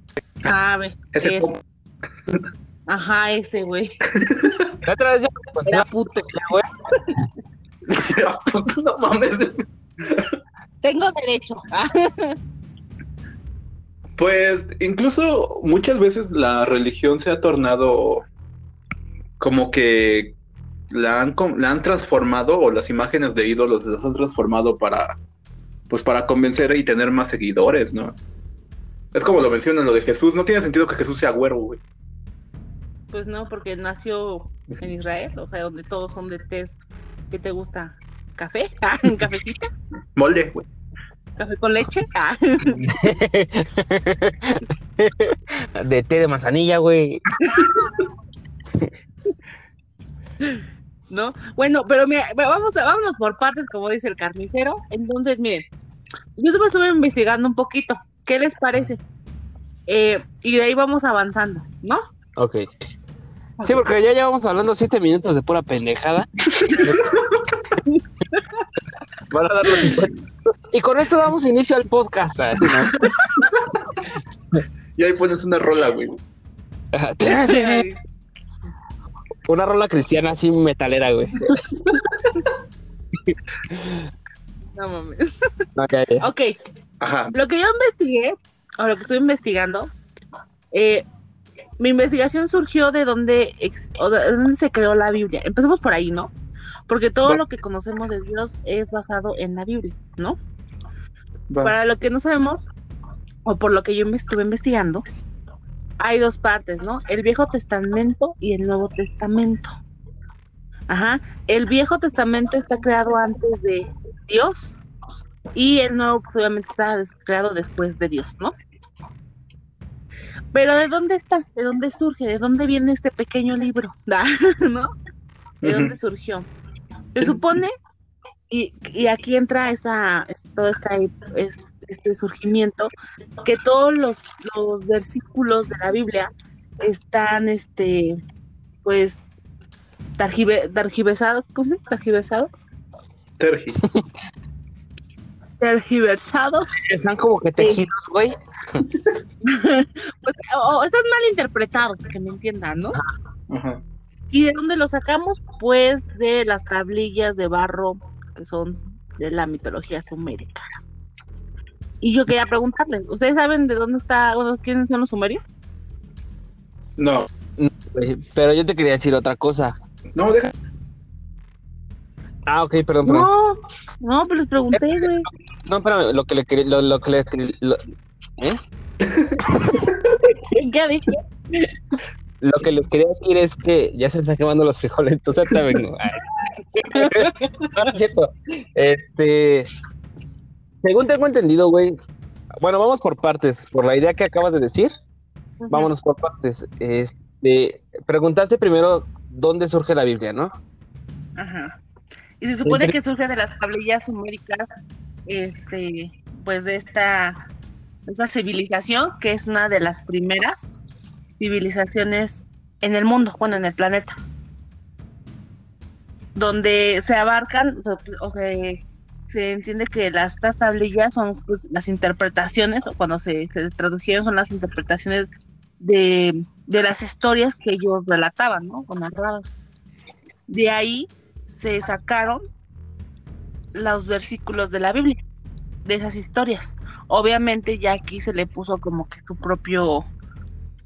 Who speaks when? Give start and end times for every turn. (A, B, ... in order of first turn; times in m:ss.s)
0:00.4-0:01.5 A
0:01.1-0:01.6 B
0:02.9-0:03.9 A
0:04.1-0:04.8 B
0:04.8-0:06.7 C
0:05.6-0:06.4 A
0:07.8-0:10.4 B
0:10.8-0:12.4 A
0:14.2-0:18.2 B
0:19.4-0:20.4 B
0:20.9-0:25.2 B
0:25.9-0:28.2 B
0:29.1-0:31.8 B
0:33.1-0:36.8 A
0:37.3-0:39.7 A
0:40.2-0:40.6 B
0:41.4-0:42.8 A
0:42.8-0:47.3 C
0:47.4-0:47.9 A
0:50.4-0:55.7 A
0:56.4-0:59.0 A
0:59.9-1:02.0 A
1:02.4-1:02.6 C
1:03.6-1:07.1 C
1:06.6-1:07.4 B
1:07.9-1:08.4 A
1:09.3-1:13.0 C
1:12.9-1:13.8 B
1:15.0-1:16.2 B
1:16.9-1:17.8 C
1:17.2-1:18.0 A
1:19.5-1:21.5 C
1:23.3-1:24.1 C
1:24.7-1:25.6 A
1:25.8-1:26.3 C
1:26.2-1:26.5 A
1:27.0-1:27.3 B
1:27.3-1:29.9 A
1:30.7-1:31.0 A
1:31.8-1:36.3 A
1:36.9-1:40.4 A
1:41.5-1:41.8 B
1:41.6-1:42.6 A
1:43.4-1:45.0 A
1:46.0-1:49.7 A
1:50.9-1:54.8 A
1:55.5-1:58.5 A
2:00.5-2:04.9 A
2:05.6-2:06.0 B
2:05.6-2:06.5 A
2:07.2-2:07.7 A
2:08.5-2:12.9 A
2:13.4-2:16.3 A
2:16.8-2:18.2 A
2:18.8-2:19.2 A
2:20.2-2:22.5 A
2:23.4-2:23.8 B
2:25.6-2:26.8 A
2:26.8-2:28.9 C
2:27.6-2:27.8 A
2:29.5-2:33.0 A
2:33.5-2:33.8 B
2:34.3-2:40.7 A
2:42.0-2:45.4 A
2:47.0-2:47.3 B
2:47.6-2:49.8 C
2:50.1-2:50.5 B
2:52.5-2:53.3 C
2:53.0-2:55.3 A
2:55.6-2:57.8 C
2:59.0-2:59.4 B
2:59.5-2:59.9 C
3:00.5-3:01.7 A
3:02.4-3:06.2 C
3:06.8-3:09.7 C
3:06.9-3:07.9 A
3:10.8-3:11.9 C
3:12.6-3:14.9 C
3:15.6-3:15.9 A
3:15.7-3:20.5 C
3:21.4-3:21.8 A
3:22.4-3:24.7 A
3:22.6-3:22.9 C
3:25.3-3:27.4 A
3:28.1-3:30.7 A
3:31.4-3:34.2 A
3:36.4-3:49.5 A
3:50.5-3:52.4 A
3:53.7-3:55.2 A
3:55.8-4:00.1 A